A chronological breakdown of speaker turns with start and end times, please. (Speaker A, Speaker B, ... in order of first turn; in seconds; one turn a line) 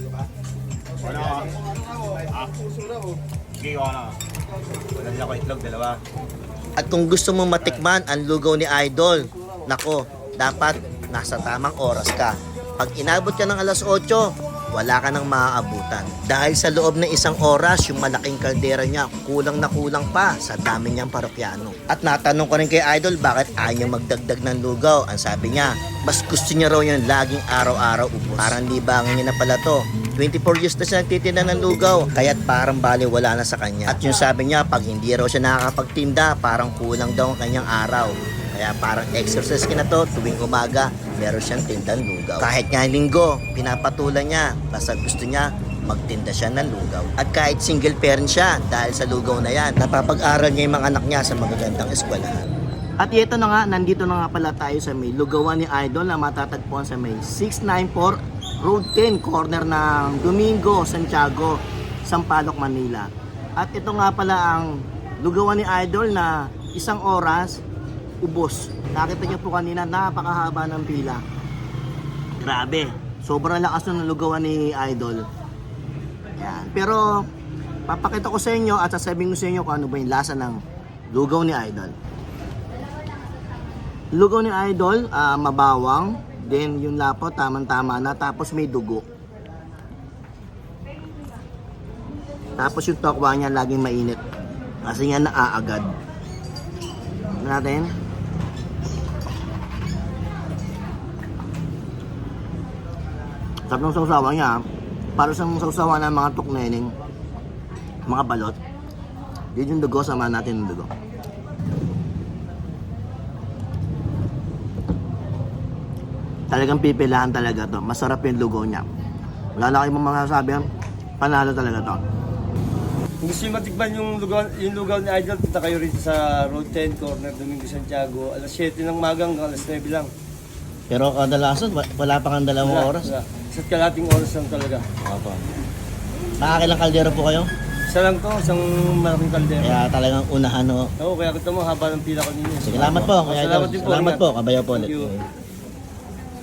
Speaker A: 1.0-1.5
Speaker A: 3.5-4.2
Speaker A: 4.9-6.0
Speaker B: 6.8-52.5
Speaker B: 53.0-67.6
Speaker B: 68.2-71.2
Speaker B: 72.4-75.2
Speaker B: 76.4-77.3
Speaker B: 77.9-80.6
Speaker B: 81.1-81.9
Speaker B: 84.1-89.0
Speaker B: 92.6-94.2
Speaker B: 94.8-95.9
Speaker B: 97.4-97.9
Speaker B: 103.7-104.6
Speaker B: 105.2-106.9
Speaker B: 108.0-108.6
Speaker B: 109.5-110.9
Speaker B: 116.5-118.9
Speaker B: 119.5-120.7
Speaker B: 121.2-122.0
Speaker C: 123.2-130.1
Speaker B: 130.9-133.1
Speaker C: 132.6-134.8
Speaker B: 135.0-135.4
Speaker B: 136.4-137.5
Speaker C: 137.9-139.8
Speaker B: 139.6-140.9
Speaker C: 141.0-145.1
Speaker B: 142.6-145.3